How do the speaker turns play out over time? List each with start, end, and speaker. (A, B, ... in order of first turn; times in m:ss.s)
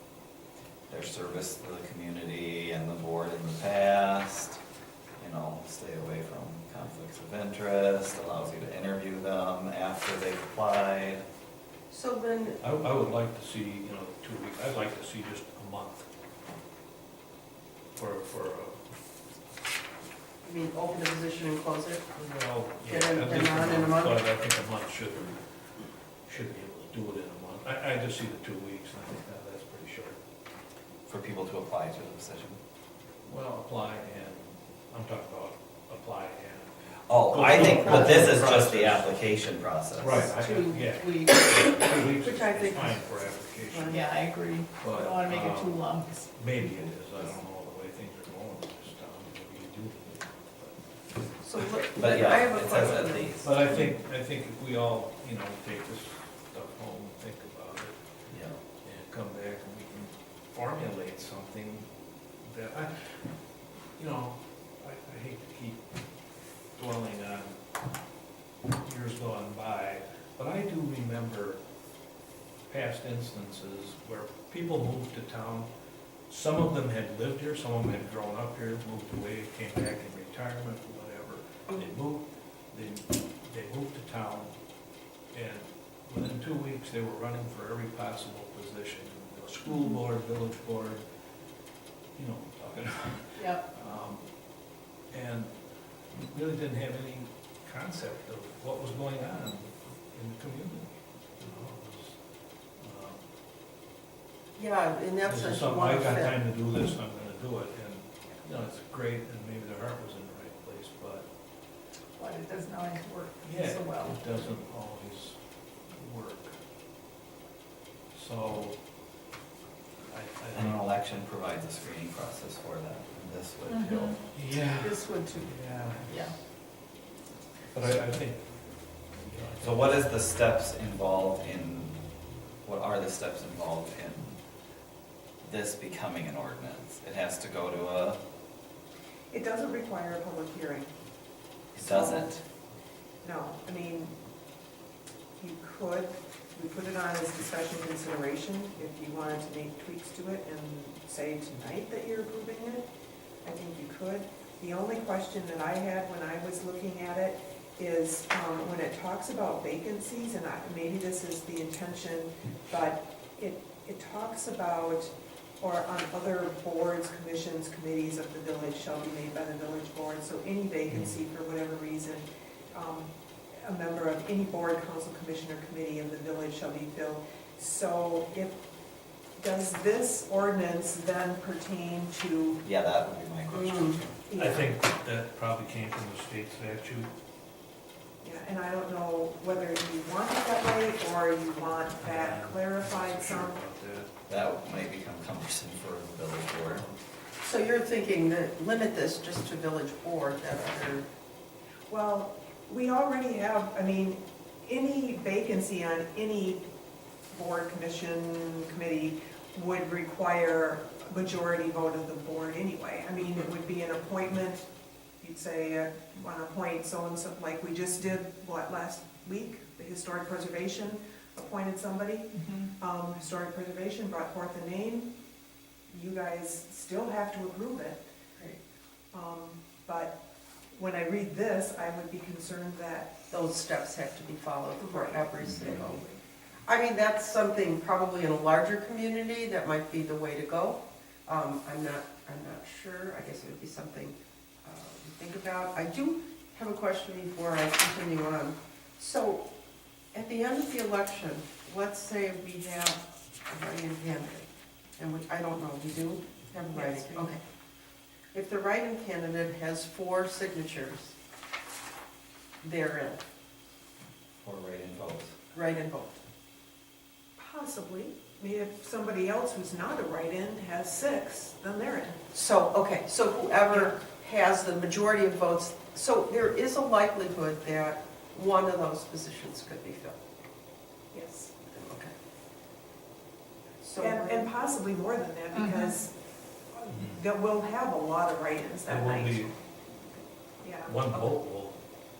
0:00.9-0:04.6 A
0:05.2-0:11.2 A
0:11.9-0:12.6 B
0:12.6-0:16.1 C
0:17.9-0:18.8 C
0:20.4-0:22.0 B
0:22.1-0:25.4 C
0:22.9-0:24.2 B
0:26.2-0:30.2 C
0:31.1-0:32.6 A
0:33.2-0:36.7 C
0:37.1-0:40.3 A
0:37.3-0:39.2 C
0:39.9-0:44.1 C
0:40.4-0:41.4 D
0:41.4-0:43.0 B
0:43.7-0:44.0 B
0:43.8-0:46.3 D
0:44.8-0:50.8 C
0:51.4-0:53.3 B
0:51.9-0:53.5 A
0:53.4-0:58.0 C
0:58.3-0:58.6 A
0:58.8-1:01.9 C
1:02.4-1:03.3 C
1:04.0-1:05.9 C
1:06.7-1:07.6 C
1:08.8-1:11.6 C
1:12.7-1:15.7 C
1:16.3-1:24.5 C
1:25.3-1:31.0 C
1:32.1-1:34.2 C
1:33.3-1:33.6 D
1:35.1-1:35.5 C
1:36.2-1:42.2 C
1:42.8-1:43.2 C
1:44.6-1:46.4 B
1:45.2-1:51.3 C
1:52.2-1:54.5 D
1:53.4-1:56.5 C
1:58.1-1:58.8 C
2:00.1-2:00.8 C
2:00.5-2:04.2 A
2:03.6-2:04.2 D
2:04.3-2:06.3 C
2:04.8-2:05.5 D
2:06.0-2:06.3 D
2:07.7-2:10.0 C
2:09.6-2:12.0 A
2:12.6-2:14.4 A
2:15.4-2:18.2 A
2:19.3-2:20.9 E
2:21.7-2:22.4 A
2:21.8-2:22.3 E
2:23.2-2:24.2 E
2:25.4-2:32.9 E
2:33.4-2:58.6 E
2:50.9-2:51.2 C
2:59.4-3:02.6 E
3:02.6-3:04.2 A
3:03.5-3:04.0 B
3:04.3-3:04.7 E
3:04.3-3:07.1 C
3:08.2-3:13.6 E
3:12.0-3:14.1 C
3:14.3-3:16.9 A
3:17.4-3:21.1 B
3:21.9-3:26.7 E
3:27.3-3:34.7 E
3:35.2-3:45.1 E
3:45.9-3:48.0 E
3:49.1-3:50.2 E
3:50.7-3:53.2 E
3:53.3-3:56.0 B
3:54.8-3:56.2 E
3:55.4-3:55.8 A
3:56.6-4:09.5 B
4:10.1-4:17.4 B
4:16.7-4:17.3 E
4:18.3-4:21.2 B
4:22.6-4:23.2 B
4:24.4-4:25.4 A
4:25.5-4:26.1 B
4:27.4-4:32.2 E
4:32.3-4:40.2 B
4:33.7-4:33.9 E
4:41.1-4:41.5 E
4:41.7-4:42.1 B
4:43.8-4:44.5 B
4:44.0-4:46.1 E
4:45.6-4:45.8 D
4:46.7-4:49.5 E
4:48.9-4:49.5 C
4:50.6-4:51.3 E
4:50.8-4:51.8 C